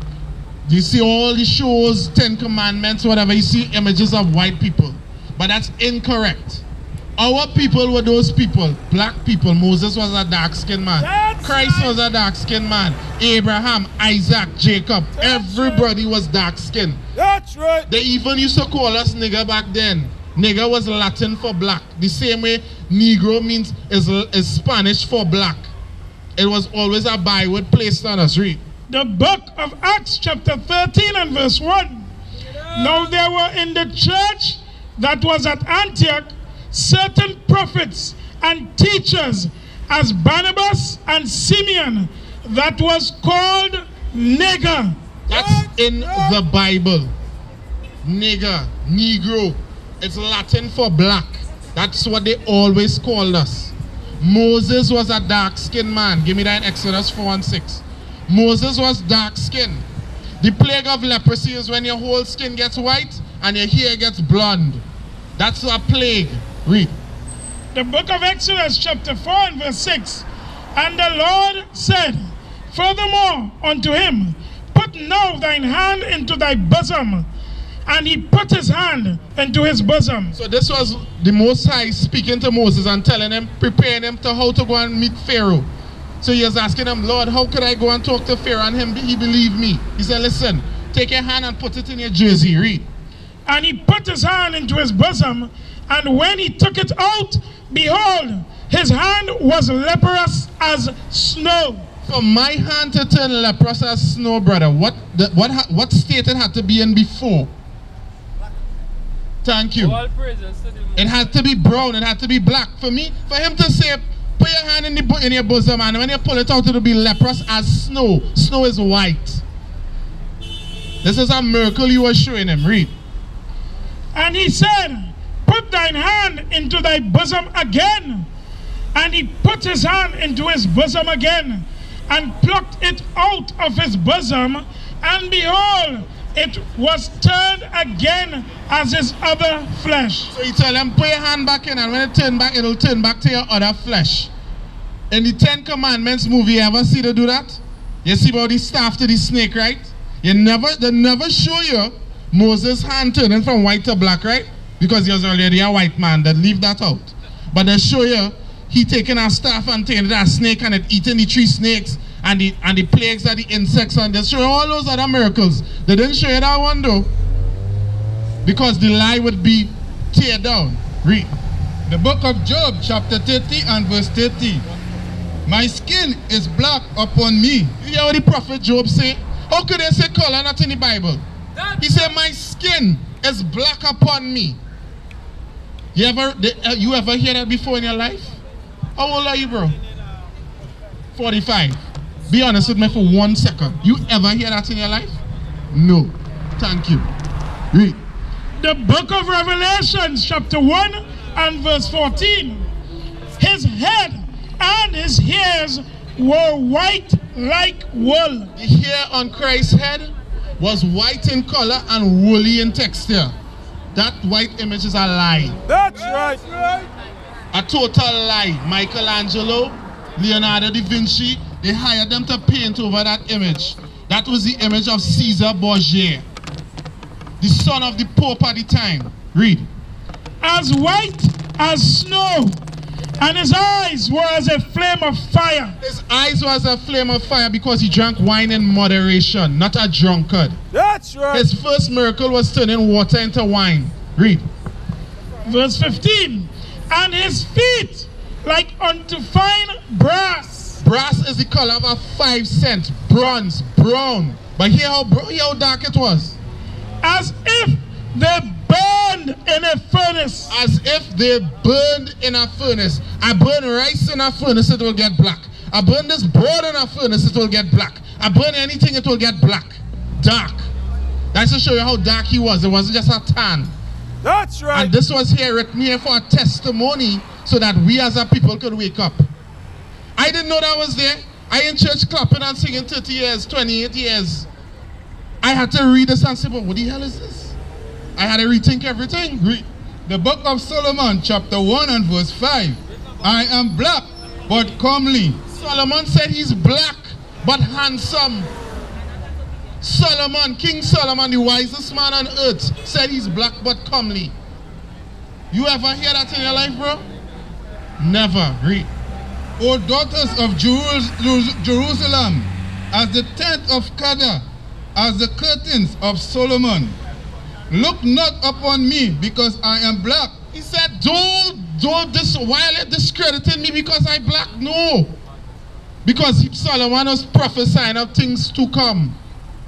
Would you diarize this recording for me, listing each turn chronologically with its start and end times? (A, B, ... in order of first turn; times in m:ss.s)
0:00.7-0:06.6 A
0:07.2-0:17.0 A
0:11.0-0:12.0 B
0:15.2-0:15.9 B
0:17.2-0:17.9 B
0:17.9-0:25.7 A
0:26.4-0:28.6 A
0:28.9-0:32.1 C
0:32.7-0:45.0 C
0:45.3-0:47.1 A
0:45.3-0:46.4 B
0:48.0-0:59.9 A
1:00.4-1:04.8 A
1:05.4-1:07.0 A
1:07.7-1:17.3 C
1:17.9-1:20.4 C
1:20.4-1:25.7 A
1:26.2-1:32.9 A
1:33.5-1:41.9 C
1:42.1-1:47.5 A
1:49.4-1:50.0 A
1:51.0-1:59.4 A
2:01.0-2:02.9 A
2:04.2-2:08.3 C
2:09.0-2:20.3 C
2:20.3-2:24.3 A
2:25.1-2:47.1 A
2:48.4-2:51.3 A
2:51.9-2:54.7 D
2:55.5-2:57.8 D
2:57.8-3:01.2 A
3:01.8-3:04.6 A
3:05.9-3:08.4 A
3:09.0-3:09.8 A
3:11.2-3:15.2 A
3:15.7-3:17.1 A
3:17.7-3:18.0 A
3:18.6-3:22.7 C
3:23.4-3:28.5 C
3:28.6-3:33.3 A
3:33.9-3:35.6 A
3:35.7-3:36.9 B
3:37.5-3:46.2 A
3:47.4-3:49.7 A
3:50.4-3:52.6 C
3:53.2-3:55.8 C
3:55.8-4:00.6 A
4:00.7-4:01.5 B
4:01.3-4:04.4 A
4:05.4-4:10.8 C
4:10.8-4:16.4 A
4:17.0-4:20.5 C
4:20.5-4:30.7 A
4:31.3-4:33.7 A
4:34.2-4:34.9 B
4:34.7-4:39.3 A
4:40.2-4:44.5 A
4:45.4-4:47.6 A
4:48.2-4:49.7 A
4:50.1-4:55.4 D
4:55.5-4:58.5 A
4:59.8-5:04.3 A
5:05.5-5:07.0 A
5:08.0-5:08.9 A
5:09.6-5:17.0 D
5:17.7-5:20.4 D
5:20.5-5:25.2 A
5:26.0-5:29.2 A